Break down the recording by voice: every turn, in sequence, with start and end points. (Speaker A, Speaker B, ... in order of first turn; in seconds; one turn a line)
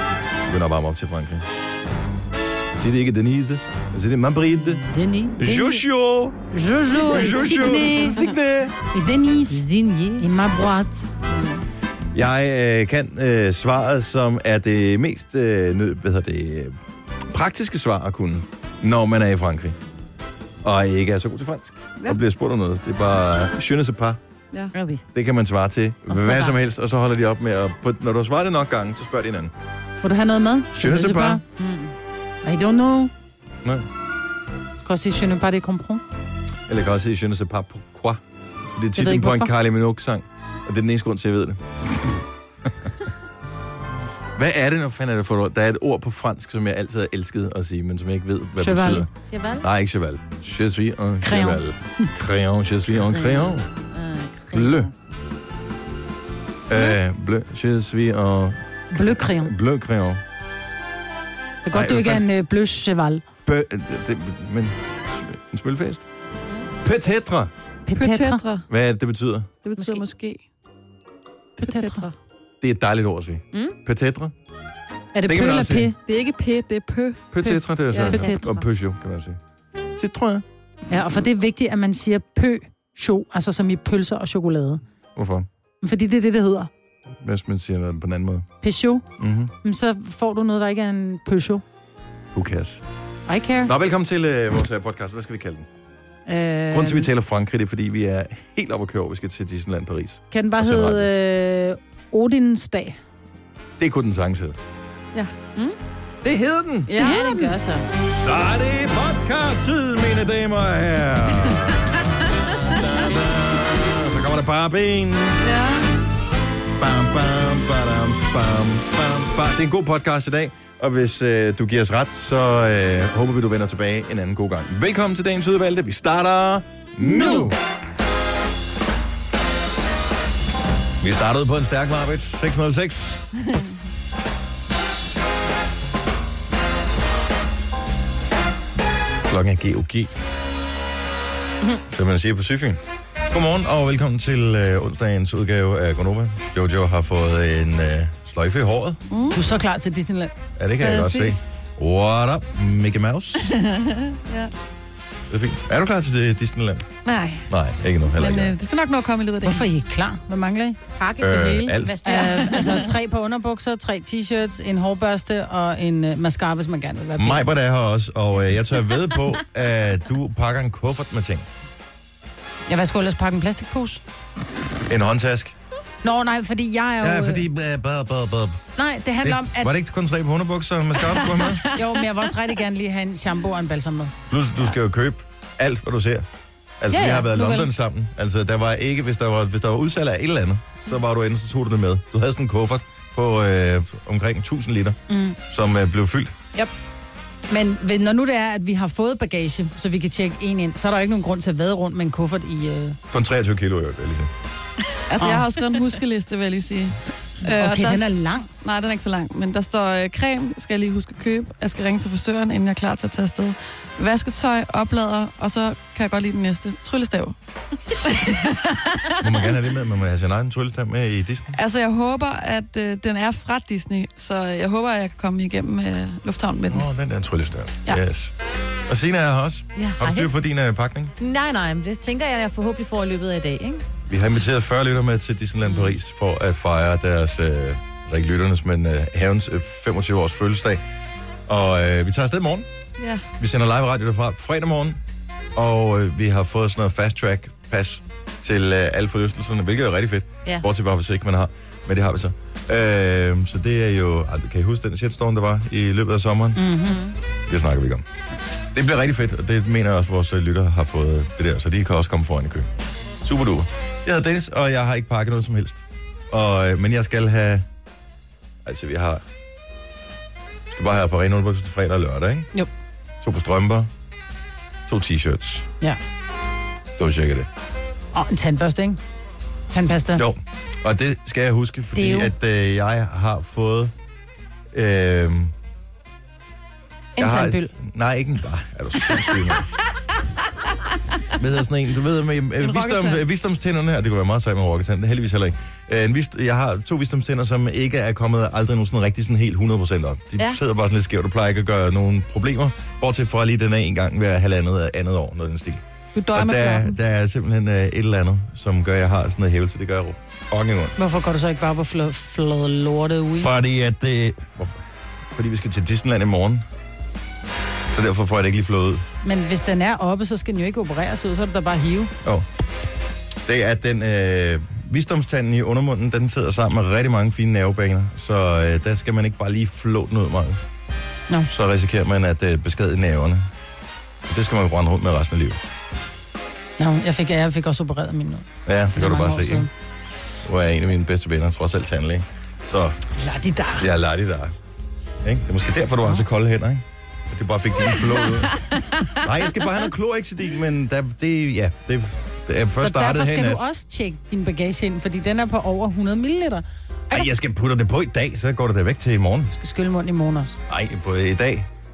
Speaker A: 0.4-1.4
Speaker A: 2.8-4.8
Speaker B: 4.8-5.4
Speaker A: 5.4-6.4
Speaker C: 5.4-5.7
Speaker C: 6.5-8.3
Speaker A: 6.9-8.7
Speaker B: 7.3-7.7
Speaker C: 8.9-9.6
Speaker B: 9.5-10.2
Speaker C: 10.2-11.1
Speaker B: 11.3-11.6
Speaker A: 12.1-16.8
Speaker A: 17.3-19.8
Speaker A: 20.6-24.2
Speaker B: 24.7-25.0
Speaker A: 25.1-29.5
Speaker B: 26.1-26.5
Speaker C: 30.0-31.4
Speaker A: 30.7-31.4
Speaker B: 31.6-31.9
Speaker C: 32.4-33.1
Speaker C: 34.8-36.0
Speaker A: 36.7-42.1
Speaker C: 39.0-39.5
Speaker A: 44.4-49.1
Speaker C: 48.6-49.1
Speaker B: 49.3-49.7
Speaker A: 49.6-53.6
Speaker C: 51.2-52.1
Speaker B: 53.0-54.9
Speaker A: 54.5-54.9
Speaker A: 56.7-60.2
Speaker C: 58.9-59.5
Speaker C: 61.6-63.2
Speaker A: 61.7-62.2
Speaker A: 63.4-66.0
Speaker A: 66.8-67.5
Speaker C: 67.8-68.4
Speaker D: 68.0-68.7
Speaker A: 68.7-69.5
Speaker D: 69.6-70.4
Speaker B: 69.8-70.0
Speaker C: 71.6-72.1
Speaker D: 71.6-72.1
Speaker A: 72.6-74.3
Speaker C: 75.1-76.0
Speaker A: 75.2-75.9
Speaker D: 76.0-77.3
Speaker A: 77.3-79.4
Speaker C: 77.5-78.6
Speaker D: 77.9-78.2
Speaker A: 79.9-80.4
Speaker C: 80.9-84.8
Speaker A: 85.1-85.5
Speaker C: 85.8-86.7
Speaker A: 87.2-88.5
Speaker C: 88.6-89.0
Speaker A: 89.2-89.5
Speaker C: 89.6-91.6
Speaker A: 92.3-92.8
Speaker C: 93.3-93.7
Speaker A: 93.6-95.7
Speaker C: 96.3-97.1
Speaker A: 96.7-101.1
Speaker C: 100.3-103.0
Speaker A: 103.8-104.6
Speaker A: 106.2-106.9
Speaker D: 106.9-107.2
Speaker B: 107.0-107.9
Speaker C: 107.0-107.5
Speaker A: 108.0-115.4
Speaker D: 115.4-115.9
Speaker A: 116.8-127.6
Speaker C: 127.0-127.5
Speaker A: 131.0-133.6
Speaker A: 139.3-140.1
Speaker A: 141.9-149.0
Speaker D: 149.1-149.4
Speaker C: 149.3-150.3
Speaker A: 150.6-153.6
Speaker D: 150.8-151.5
Speaker D: 153.6-154.5
Speaker A: 155.3-156.9
Speaker D: 157.0-157.5
Speaker A: 157.5-158.6
Speaker D: 158.1-159.7
Speaker C: 159.4-160.8
Speaker B: 161.0-162.9
Speaker A: 161.2-162.0
Speaker C: 162.0-167.4
Speaker D: 162.1-162.8
Speaker A: 167.2-171.5
Speaker C: 172.7-174.0
Speaker A: 174.9-175.5
Speaker C: 176.0-177.4
Speaker A: 177.0-178.6
Speaker C: 178.8-179.7
Speaker A: 179.2-181.7
Speaker C: 181.4-184.1
Speaker A: 184.3-186.2
Speaker A: 186.8-196.3
Speaker C: 186.9-187.7
Speaker C: 195.1-195.4
Speaker C: 197.5-203.0
Speaker A: 203.1-204.3
Speaker D: 205.1-217.3
Speaker C: 205.2-205.4
Speaker C: 207.4-208.5
Speaker D: 218.0-219.2
Speaker A: 219.2-221.6
Speaker D: 221.5-226.8
Speaker A: 226.7-228.3
Speaker A: 228.9-231.1
Speaker B: 229.8-230.3
Speaker B: 231.2-233.8
Speaker A: 234.1-240.8
Speaker B: 235.6-235.9
Speaker A: 241.5-242.7
Speaker D: 243.0-243.2
Speaker A: 243.4-245.0
Speaker A: 245.5-256.7
Speaker C: 256.6-257.1
Speaker A: 257.5-258.0
Speaker A: 258.7-262.7
Speaker A: 263.2-267.6
Speaker A: 268.6-269.2
Speaker A: 270.7-272.5
Speaker A: 273.2-273.9
Speaker A: 274.9-275.7
Speaker A: 277.0-277.5
Speaker C: 278.1-279.0
Speaker C: 279.7-280.2
Speaker A: 280.1-283.9
Speaker C: 281.9-282.3
Speaker A: 284.7-285.5
Speaker C: 287.2-287.7
Speaker A: 287.2-289.7
Speaker A: 291.4-310.9
Speaker D: 292.6-293.2
Speaker D: 306.1-306.9
Speaker C: 311.0-313.5
Speaker A: 313.4-314.8
Speaker A: 315.3-316.6
Speaker A: 317.9-319.0
Speaker C: 319.2-322.1
Speaker A: 323.4-330.6
Speaker A: 331.5-333.5
Speaker A: 334.2-335.6
Speaker C: 336.8-339.7
Speaker A: 338.6-339.7
Speaker A: 340.4-343.0
Speaker C: 343.1-343.9
Speaker A: 343.8-344.5
Speaker A: 345.2-348.6
Speaker C: 348.6-349.1
Speaker A: 349.2-353.7
Speaker C: 352.7-356.6
Speaker A: 357.1-359.5
Speaker C: 359.5-360.6
Speaker A: 360.7-361.7